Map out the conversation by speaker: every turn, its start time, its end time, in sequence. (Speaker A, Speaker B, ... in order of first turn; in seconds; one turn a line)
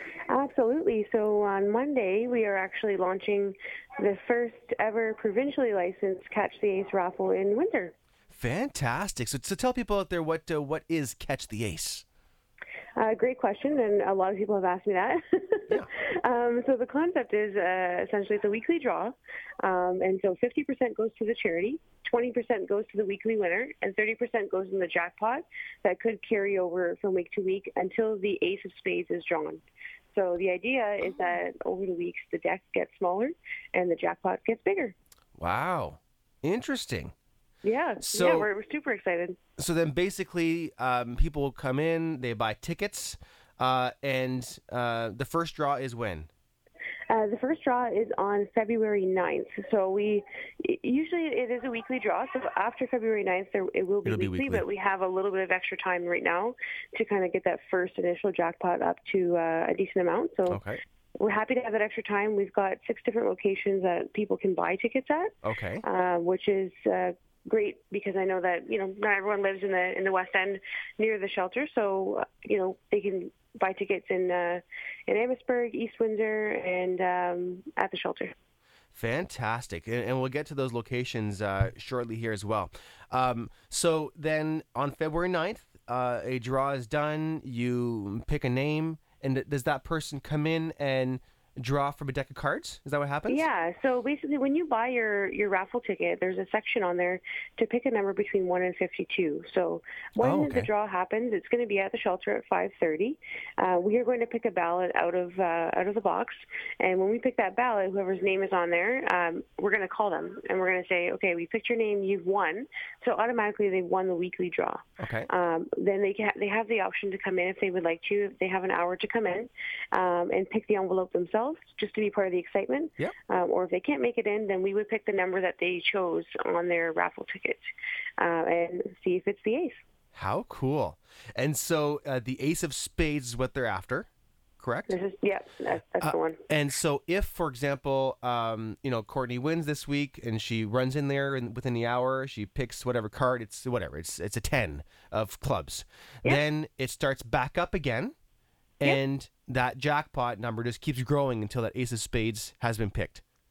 Speaker A: 0.3-7.9
Speaker B: 8.3-12.0
Speaker A: 12.9-29.6
Speaker A: 30.1-34.9
Speaker B: 35.4-37.1
Speaker A: 37.6-39.4
Speaker B: 38.0-38.5
Speaker B: 39.6-46.3
Speaker A: 47.1-60.6
Speaker B: 54.0-54.6
Speaker B: 60.5-60.8
Speaker A: 61.2-78.3
Speaker B: 65.4-65.8
Speaker B: 78.9-93.5
Speaker A: 93.3-127.6
Speaker B: 100.2-100.7
Speaker B: 115.0-115.3
Speaker A: 128.2-129.8
Speaker B: 130.1-135.0
Speaker A: 134.9-136.4
Speaker B: 136.0-148.1
Speaker B: 148.8-153.2